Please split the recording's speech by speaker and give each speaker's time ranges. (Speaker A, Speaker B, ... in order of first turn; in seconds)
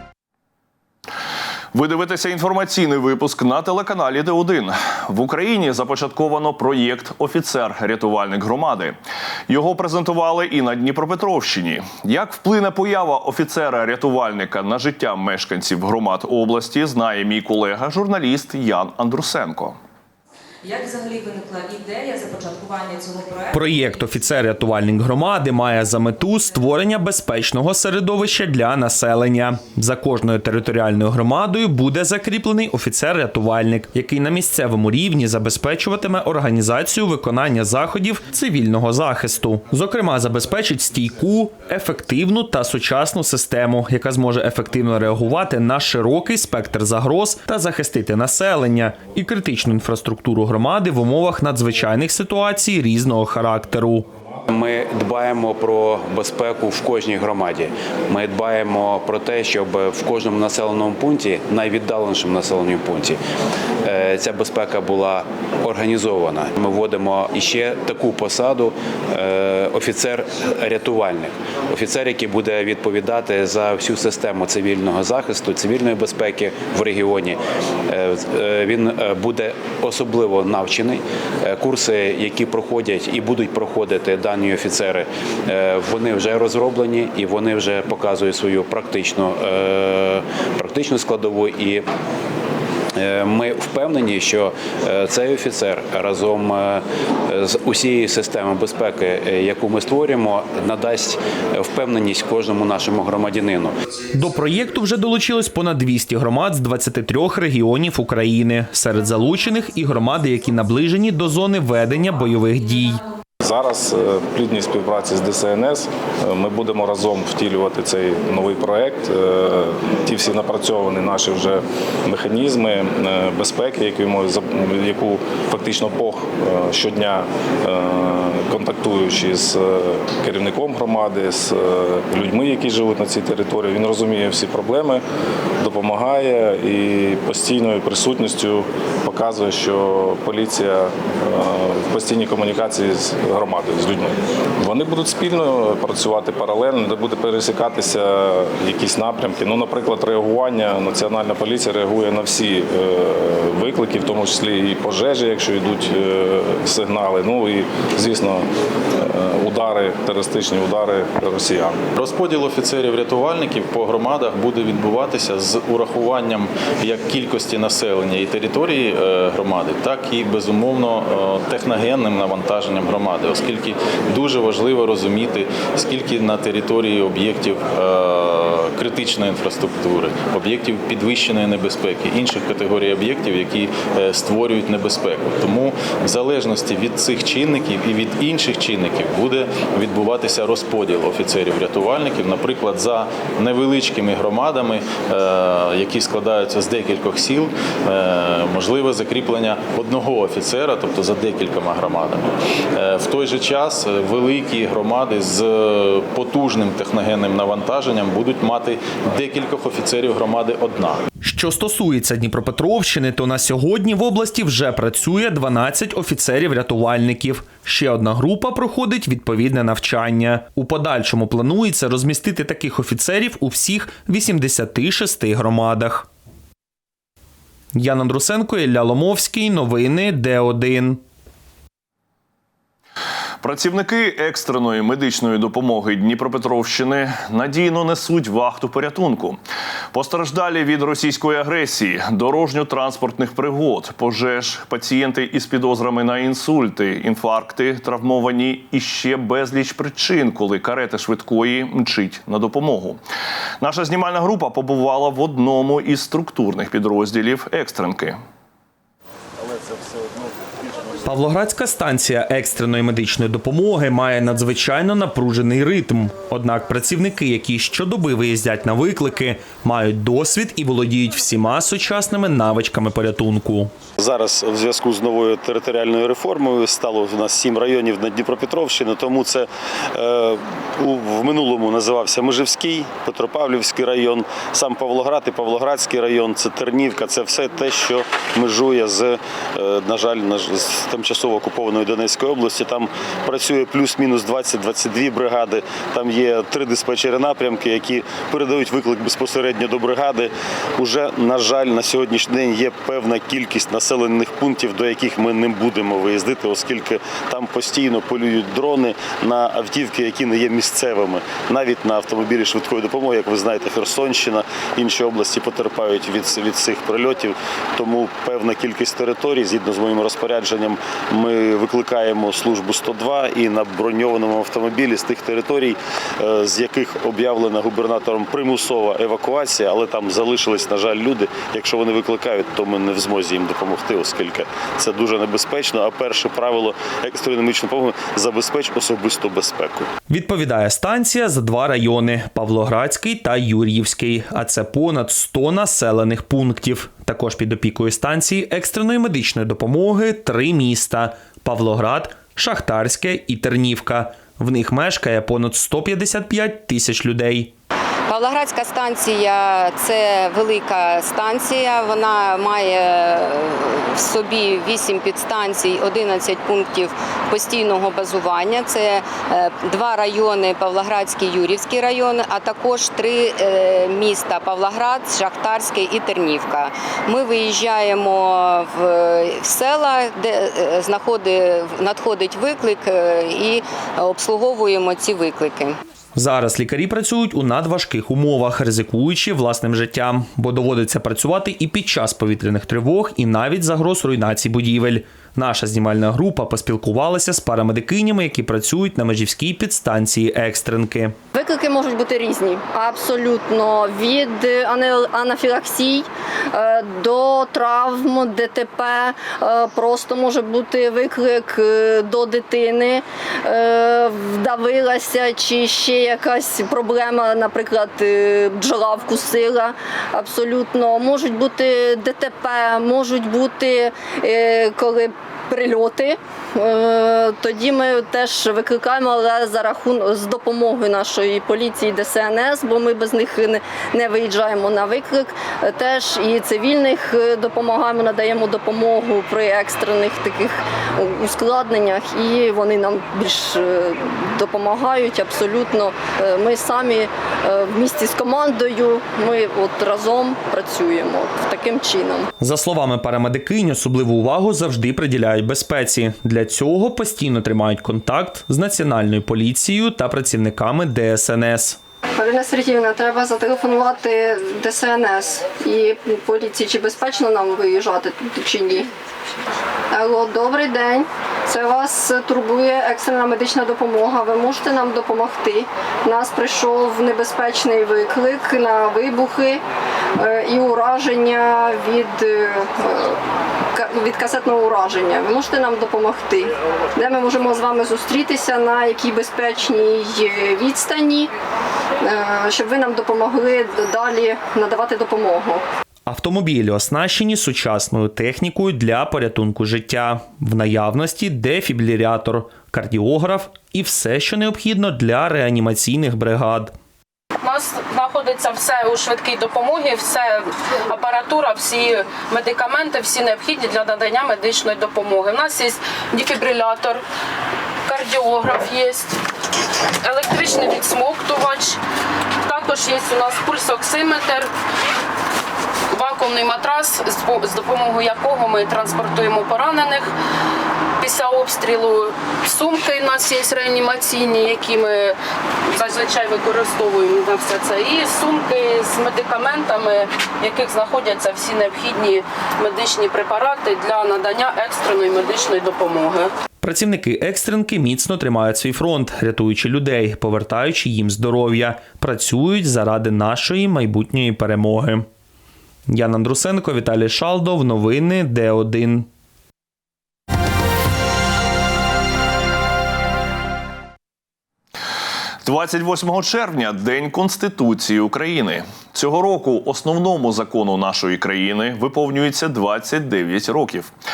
Speaker A: 1.7-8.9, 9.5-19.8, 233.4-239.4, 239.9-253.0, 253.6-258.2, 565.4-573.9
Speaker B: 20.6-24.0
Speaker C: 23.5-54.1, 104.1-113.0, 211.2-226.1, 227.7-231.0, 261.0-273.7, 340.1-357.5, 386.1-401.1, 452.4-461.8, 496.1-506.7, 546.6-555.1, 555.9-559.1
Speaker D: 54.5-63.2, 63.8-91.8, 92.9-103.7
Speaker E: 113.4-135.0, 135.6-161.8
Speaker F: 161.9-211.0
Speaker G: 274.0-339.9
Speaker H: 358.1-385.8
Speaker I: 401.3-452.3, 462.1-468.9, 469.9-479.6, 480.2-483.2, 483.7-491.3, 492.0-495.6
Speaker J: 507.4-517.0, 517.9-519.2, 520.0-521.8, 522.4-524.5, 525.9-530.1, 531.0-535.1, 535.7-546.3